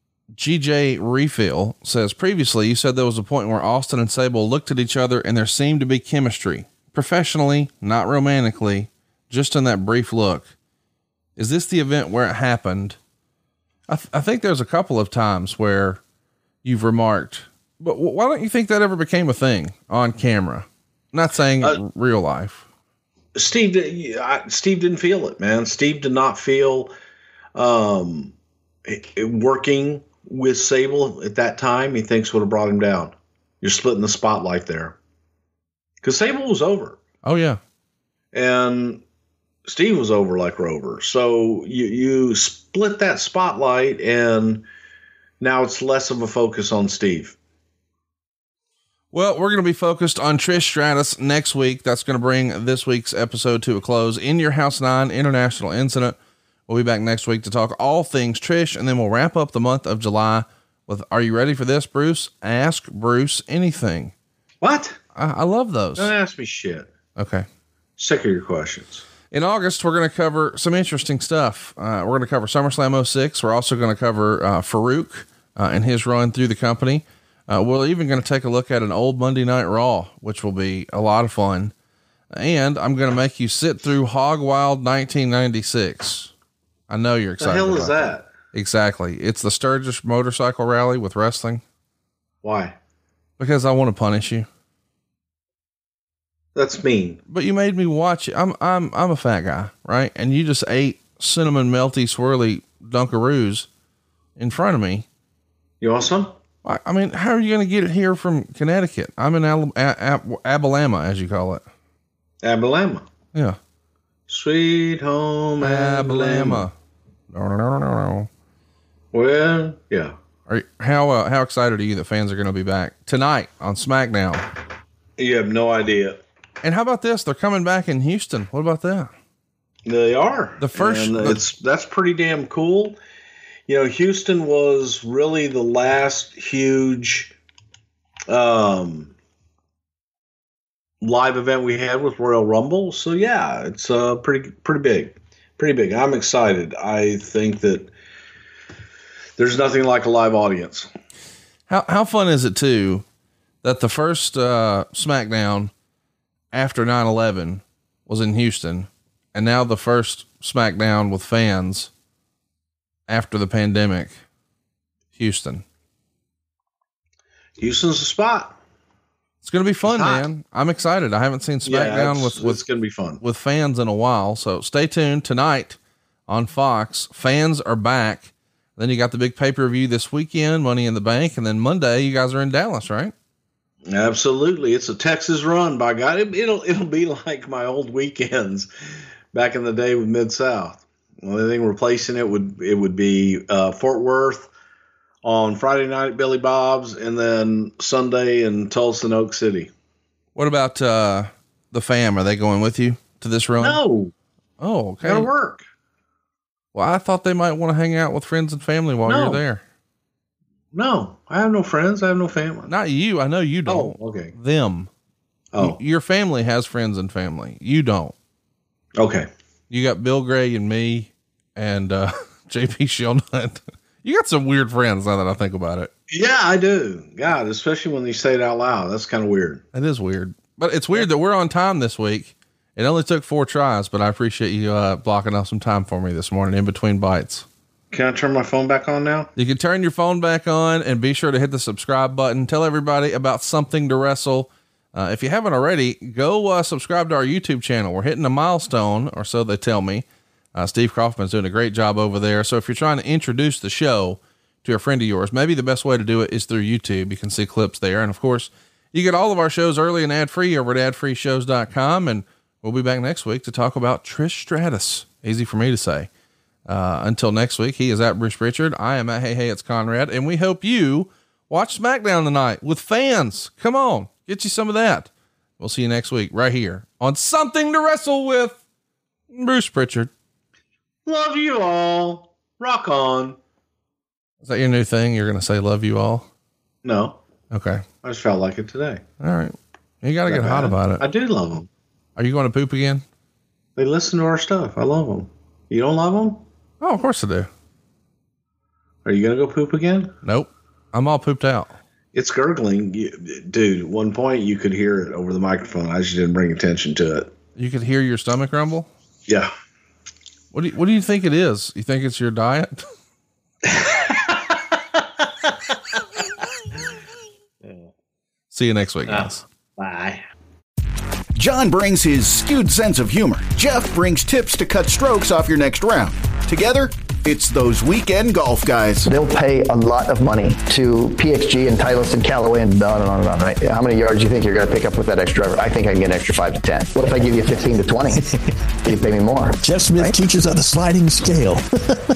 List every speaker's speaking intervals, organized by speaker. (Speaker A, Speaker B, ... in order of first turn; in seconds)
Speaker A: 0.3-10.5, 11.4-13.0, 13.9-16.0, 16.6-22.6, 37.2-37.6, 49.1-56.2, 56.7-64.1, 65.1-66.1, 67.2-67.5, 69.3-81.7, 82.3-86.3, 86.9-91.6, 93.4-94.5, 97.3-103.7, 104.4-105.0, 106.6-111.6, 115.6-116.7, 117.3-118.3, 120.5-124.5, 126.6-129.1, 130.6-131.4, 151.7-153.0, 153.6-155.7, 156.5-161.9, 163.1-164.2, 165.1-165.6, 169.4-172.6, 173.2-183.1, 200.3-203.8, 204.6-205.3, 206.7-209.6, 212.7-214.9, 215.6-218.1, 219.7-225.9, 229.7-237.4, 239.3-266.1, 266.6-278.6, 279.3-280.1, 284.4-286.3, 287.5-287.8, 289.2-291.1, 292.2-293.0, 296.8-297.5, 300.2-301.8, 307.6-308.9, 310.5-312.9, 318.5-319.4
Speaker B: 23.3-26.9, 27.5-28.3, 28.9-35.0, 36.0-37.0, 38.3-39.0, 39.6-44.6, 45.4-47.4, 64.6-65.0, 66.0-66.9, 68.0-69.0, 87.4-88.3, 92.4-92.8, 96.5-97.2, 105.8-106.3, 112.4-113.0, 114.3-116.7, 119.1-120.1, 125.2-126.2, 129.8-133.0, 133.7-137.3, 138.3-139.1, 141.0-147.9, 149.4-150.9, 167.6-168.6, 169.8-170.3, 171.6-173.2, 183.9-188.7, 189.3-194.5, 195.2-199.7, 203.6-204.1, 205.0-205.6, 209.1-209.4, 210.7-212.7, 213.7-214.3, 215.5-215.8, 218.9-219.3, 226.1-229.6, 237.9-239.3, 281.1-283.4, 286.8-287.2, 288.0-289.0, 290.3-291.7, 293.8-296.4, 299.1-300.1, 302.1-307.3, 313.6-316.2, 317.6-317.9, 319.1-320.2
Speaker C: 321.4-329.1
Speaker D: 329.1-338.2, 338.8-339.6
Speaker E: 339.6-342.1